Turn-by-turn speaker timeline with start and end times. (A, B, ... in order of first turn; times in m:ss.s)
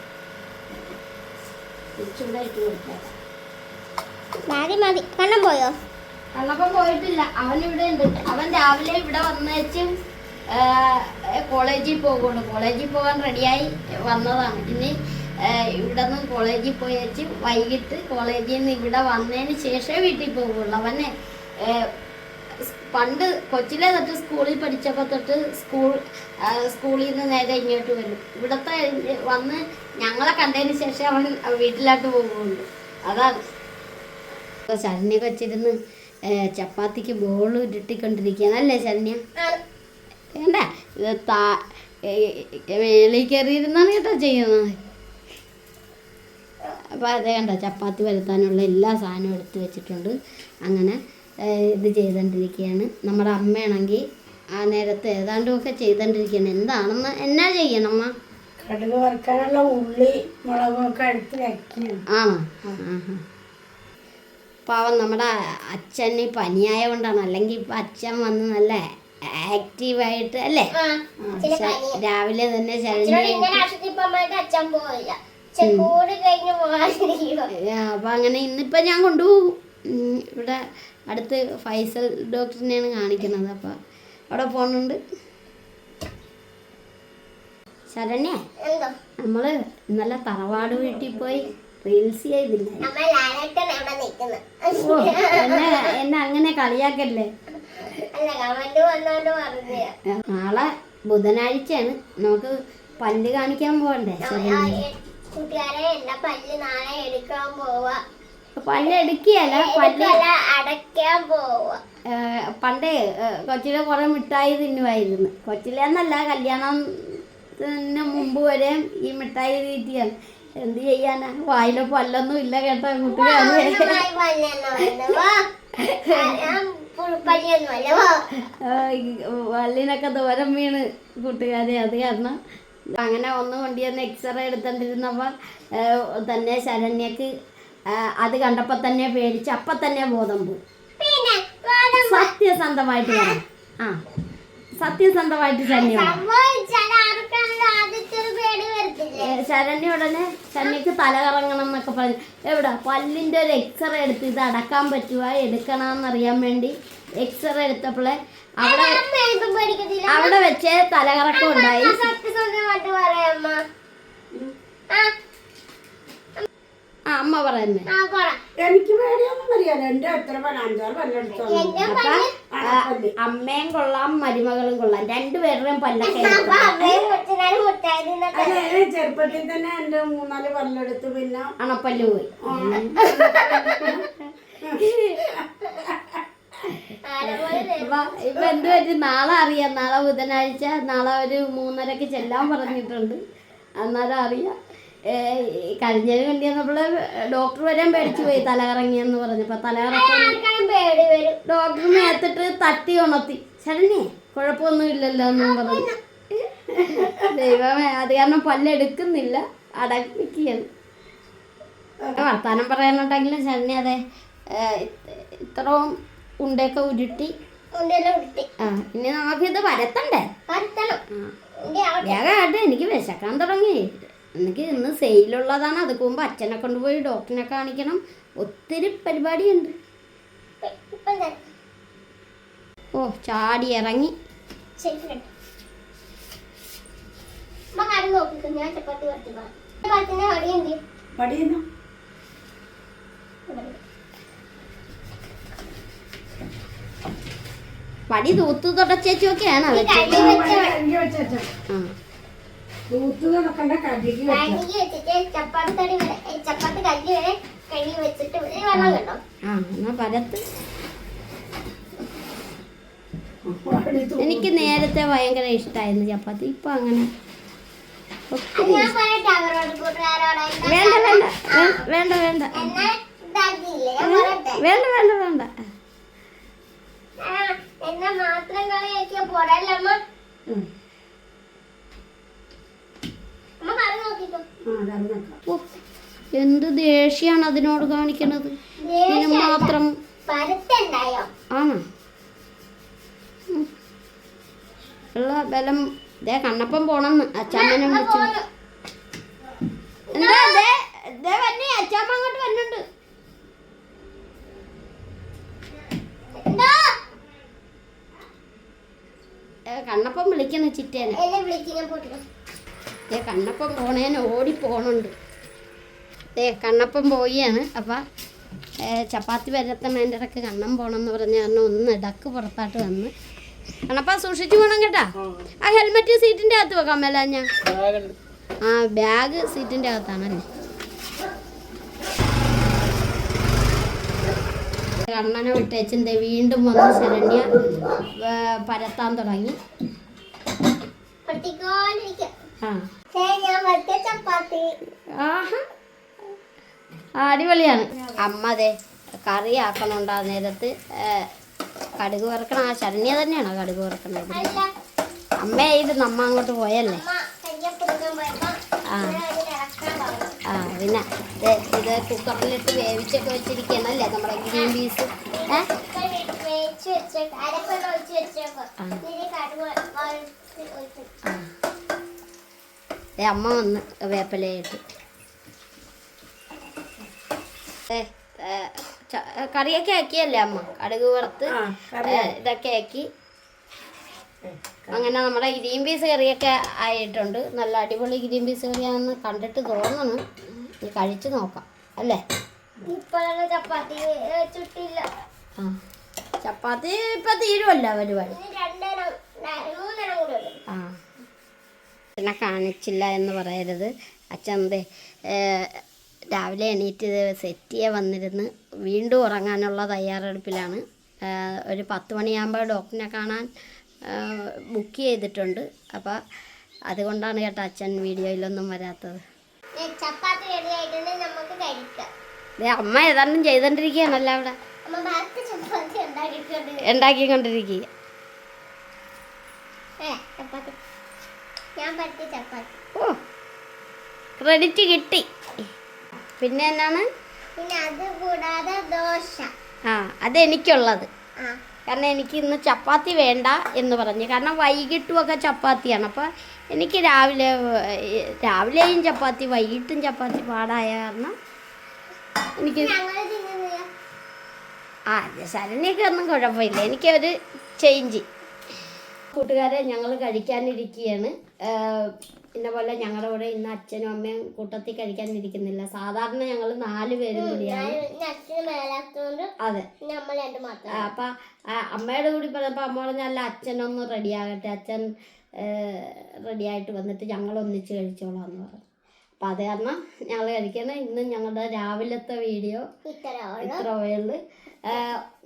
0:02.0-0:03.1 A
0:04.5-0:05.7 B
0:06.4-0:09.9 A
0:10.5-0:21.9 A
0:22.6-0:33.4 A
0:34.7-0:35.7 A
0:36.3-0:39.2 A
0:40.3-0:44.7 A
0:46.9-0:54.0 A
0:54.6-0:58.1 A
0:58.6-1:02.0 C
1:02.1-1:03.2 A
1:04.7-1:10.7 A
1:10.8-1:12.0 B
1:11.4-1:13.6 A
1:13.0-1:17.5 B
1:15.6-1:15.9 A
1:17.6-1:20.6 A
1:21.1-1:23.8 A
1:24.3-1:25.0 A
1:27.9-1:28.4 A
1:28.6-1:28.9 B
1:29.2-1:32.9 A
1:32.8-1:35.9 B
1:34.8-1:37.3 A
1:37.6-1:39.9 B
1:40.1-1:44.8 A
1:44.2-1:48.0 B
1:48.6-1:50.2 A
1:48.8-1:51.8 B
1:52.1-2:00.1 A
2:00.6-2:04.0 A
2:03.0-2:05.4 B
2:04.8-2:05.1 A
2:05.8-2:06.6 A
2:06.1-2:08.2 B
2:08.6-2:12.4 A
2:13.0-2:17.3 A
2:17.9-2:20.6 A
2:21.0-2:22.3 B
2:22.0-2:24.0 A
2:23.1-2:23.4 B
2:24.8-2:26.2 A
2:25.7-2:29.3 B
2:29.2-2:39.0 A
2:38.6-2:40.4 B
2:40.1-2:42.1 A
2:41.3-2:43.6 B
2:47.1-2:47.9 A
2:47.9-2:48.4 B
2:48.6-2:51.9 C
2:51.4-2:52.3 B
2:51.8-2:57.1 A
2:52.5-2:53.2 C
2:56.0-2:58.7 B
2:58.3-3:01.5 C
3:01.6-3:03.0 A
3:02.4-3:04.0 C
3:03.0-3:04.0 B
3:03.6-3:05.3 A
3:07.0-3:08.1 B
3:07.2-3:13.2 A
3:13.8-3:14.5 A
3:15.1-3:20.4 A
3:19.9-3:22.2 B
3:21.4-3:30.6 A
3:25.4-3:25.9 B
3:32.2-3:34.0 A
3:34.5-3:37.3 A
3:37.7-3:38.5 B
3:38.6-3:40.3 A
3:40.5-3:41.0 B
3:41.6-3:42.5 B
3:42.0-3:43.8 A
3:44.4-3:49.7 A
3:50.6-3:51.4 B
3:52.9-3:54.1 A
3:54.8-3:55.3 B
3:57.7-4:00.8 B
4:01.2-4:01.6 C
4:03.5-4:03.8 B
4:08.1-4:10.6 A
4:09.7-4:10.8 B
4:10.1-4:11.5 C
4:12.9-4:14.6 C
4:14.3-4:19.2 B
4:18.7-4:20.4 A
4:23.4-4:24.7 C
4:24.2-4:27.1 A
4:28.3-4:28.9 A
4:28.6-4:31.8 B
4:30.6-4:32.7 A
4:32.5-4:34.6 B
4:34.0-4:35.5 A
4:37.2-4:40.0 B
4:43.6-4:44.4 B
4:44.6-4:45.4 C
4:46.3-4:48.5 A
4:48.8-4:49.7 B
4:49.1-4:49.9 A
4:50.3-4:51.3 B
4:51.5-4:51.8 A
4:55.1-4:58.3 A
4:57.5-4:58.4 B
5:00.1-5:00.6 B
5:00.1-5:02.8 A
5:06.3-5:07.0 B
5:09.7-5:11.2 A
5:11.1-5:12.2 B
5:13.1-5:15.1 A
5:16.4-5:18.0 A
5:18.8-5:23.1 A
5:23.9-5:25.1 A
5:25.6-5:27.5 A
5:28.6-5:30.4 A
5:35.0-5:37.5 A
5:38.1-5:39.6 A
5:41.2-5:42.3 B
5:43.1-5:44.7 B
5:45.1-5:45.6 A
5:47.2-5:48.7 A
5:49.2-5:51.3 A
5:52.0-5:54.6 A
5:54.3-5:54.7 B
5:55.4-5:57.0 A
5:56.9-6:00.4 B
5:58.9-5:59.2 A
6:00.5-6:05.6 A
6:05.3-6:11.1 B
6:13.2-6:14.8 A
6:17.9-6:23.1 A
6:21.5-6:22.3 C
6:24.4-6:25.0 C
6:24.9-6:32.2 A
6:32.9-6:35.0 B
6:36.4-6:38.4 A
6:38.3-6:40.6 B
6:40.7-6:40.9 A
6:42.2-6:53.5 A
6:54.1-6:56.2 A
6:56.9-6:59.2 A
6:59.8-7:02.1 B
7:02.6-7:04.6 A
7:04.9-7:06.8 B
7:06.8-7:07.8 A
7:10.0-7:10.7 B
7:11.8-7:12.7 B
7:14.4-7:15.2 A
7:16.4-7:17.0 A
7:17.6-7:19.5 B
7:19.9-7:21.1 A
7:21.9-7:31.3 A
7:32.6-7:33.0 A
7:32.8-7:33.9 B
7:35.1-7:38.2 A
7:39.3-7:48.0 A
7:47.3-7:49.5 B
7:50.0-7:51.1 B
7:51.0-7:55.0 A
7:55.6-7:58.8 A
7:59.4-8:02.8 A
8:03.0-8:03.8 B
8:03.6-8:05.2 A